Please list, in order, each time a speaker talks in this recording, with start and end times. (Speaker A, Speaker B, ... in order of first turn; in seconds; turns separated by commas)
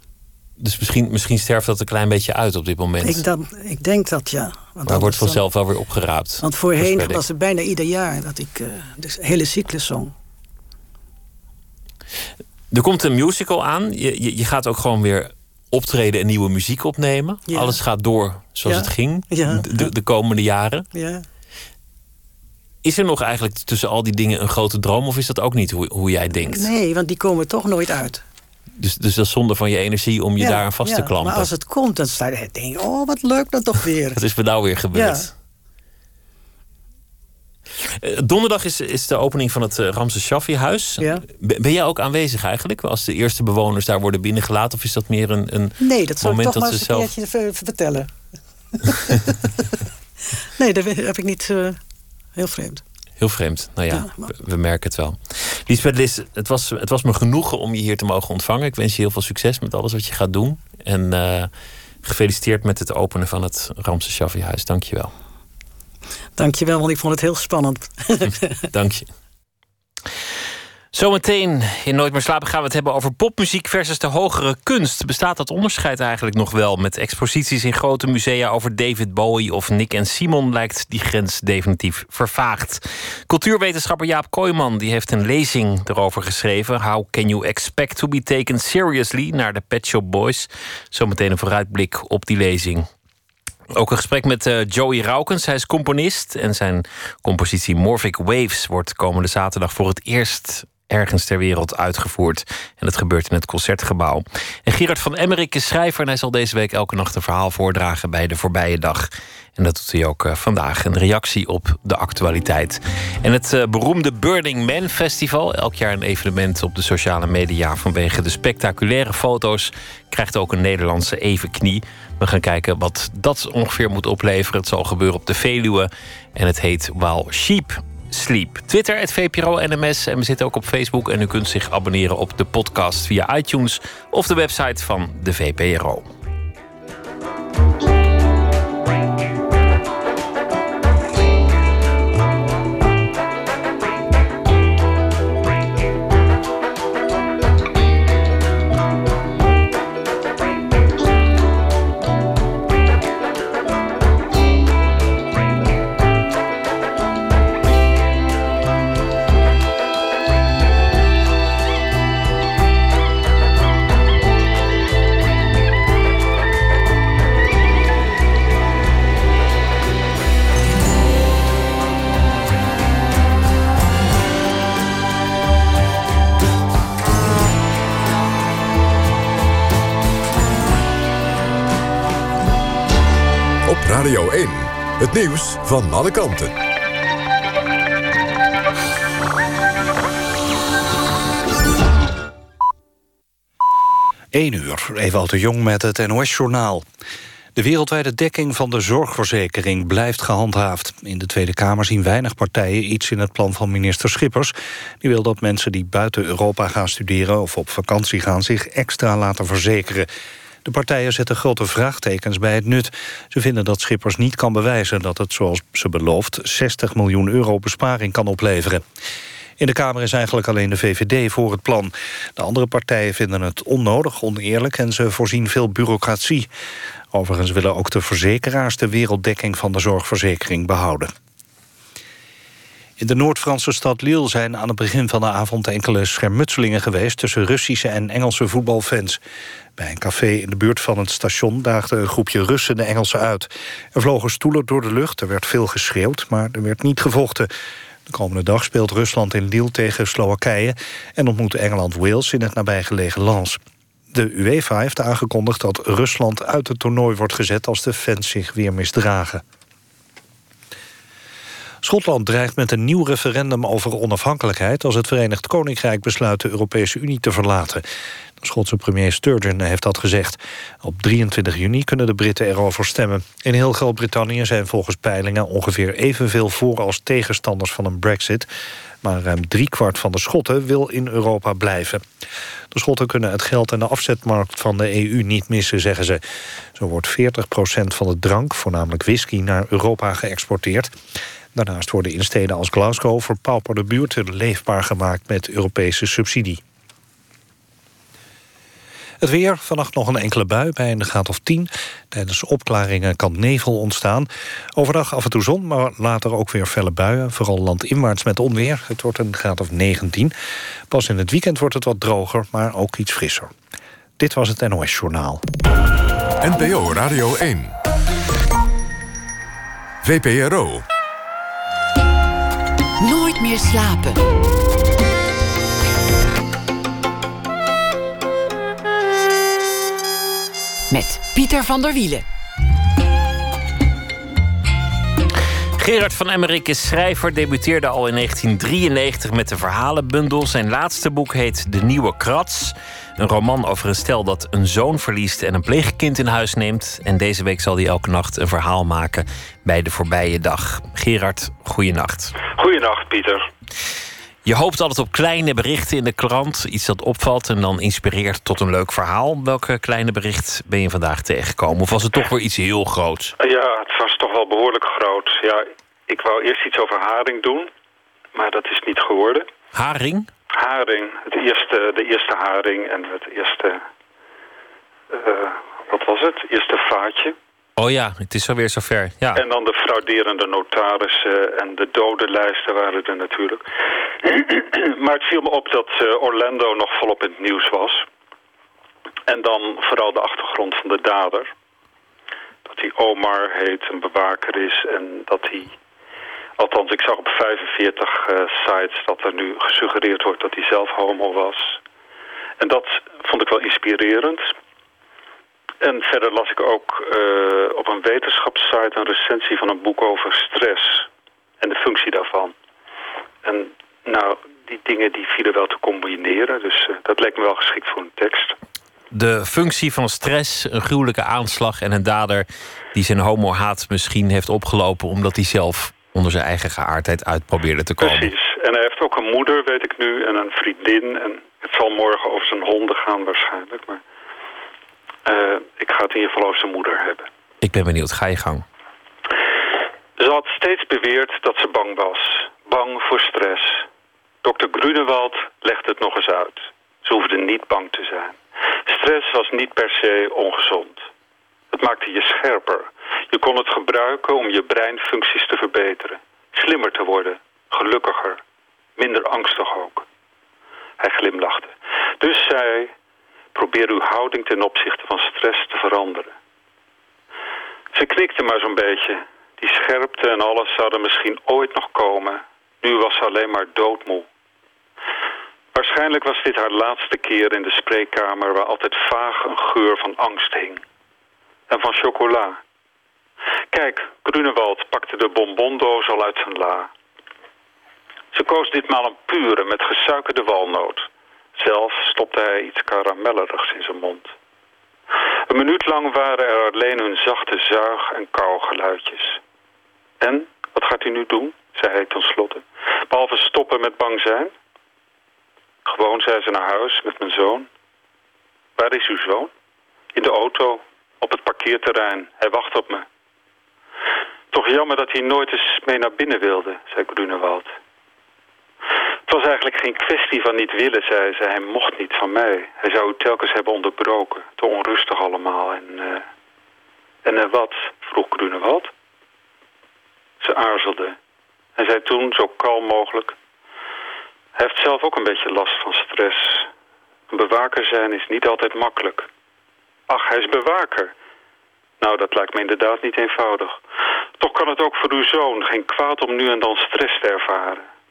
Speaker A: 0.6-3.2, Speaker B: 3.0-5.4, Speaker A: 4.9-7.2, Speaker B: 6.4-10.1, Speaker A: 12.7-20.9, Speaker B: 17.5-17.8, Speaker B: 18.6-19.9, Speaker B: 20.9-21.2, Speaker A: 22.8-26.7, Speaker B: 26.4-28.2, Speaker A: 28.8-31.5, Speaker B: 30.4-34.2, Speaker A: 34.1-35.3, Speaker B: 34.9-35.3, Speaker A: 37.9-47.1, Speaker B: 45.8-48.1, Speaker B: 48.8-49.6, Speaker B: 50.6-51.8, Speaker B: 52.4-52.8, Speaker A: 53.2-61.5, Speaker B: 53.9-54.3, Speaker A: 62.0-65.1, Speaker B: 66.4-68.5, Speaker A: 68.7-69.1, Speaker A: 70.9-92.9, Speaker A: 93.8-136.1, Speaker C: 183.6-186.5, Speaker D: 194.3-196.9, Speaker D: 197.6-210.1, Speaker D: 210.6-218.8, Speaker D: 219.6-226.5, Speaker D: 227.1-231.1, Speaker D: 233.0-239.2, Speaker D: 239.8-247.5, Speaker D: 248.1-253.6, Speaker D: 254.1-259.4, Speaker D: 261.8-267.8, Speaker D: 268.4-278.5, Speaker D: 279.0-282.0, Speaker D: 282.7-286.2, Speaker D: 286.8-290.9, Speaker D: 291.5-296.6, Speaker D: 299.2-310.3, Speaker D: 310.9-313.5, Speaker D: 314.2-315.4, Speaker C: 316.4-317.8, Speaker C: 320.0-320.9, Speaker E: 323.0-324.2, Speaker E: 330.9-332.2, Speaker A: 335.8-352.3, Speaker F: 352.5-353.4, Speaker A: 354.4-363.3, Speaker F: 363.4-367.7, Speaker F: 368.4-369.5, Speaker A: 369.7-370.3, Speaker F: 370.5-373.9, Speaker F: 375.1-377.4, Speaker A: 377.8-379.4, Speaker F: 379.4-383.6, Speaker F: 384.2-388.1, Speaker F: 389.3-391.5, Speaker F: 392.7-395.7, Speaker F: 396.6-401.8, Speaker F: 402.6-404.5, Speaker F: 405.8-411.1, Speaker F: 411.6-412.5, Speaker F: 413.4-418.6, Speaker A: 419.1-428.3, Speaker F: 428.0-434.0, Speaker F: 435.2-437.3, Speaker A: 437.6-438.6, Speaker F: 440.2-443.9, Speaker F: 444.4-448.4, Speaker F: 448.9-451.1, Speaker F: 451.7-458.4, Speaker F: 459.0-460.1, Speaker F: 461.0-462.9, Speaker F: 463.6-466.3, Speaker F: 467.9-474.3, Speaker F: 475.7-480.8, Speaker F: 481.7-482.6, Speaker F: 483.7-486.9, Speaker F: 488.3-494.3, Speaker F: 495.5-499.4, Speaker F: 500.2-504.5, Speaker F: 505.9-507.7, Speaker F: 508.8-509.5, Speaker F: 510.1-513.1, Speaker F: 514.5-517.7, Speaker F: 519.3-526.2, Speaker F: 527.2-528.9, Speaker F: 530.4-531.2, Speaker F: 531.8-533.4, Speaker F: 534.6-536.7, Speaker F: 537.3-539.3, Speaker F: 540.1-541.1, Speaker F: 542.0-543.8, Speaker F: 544.4-547.9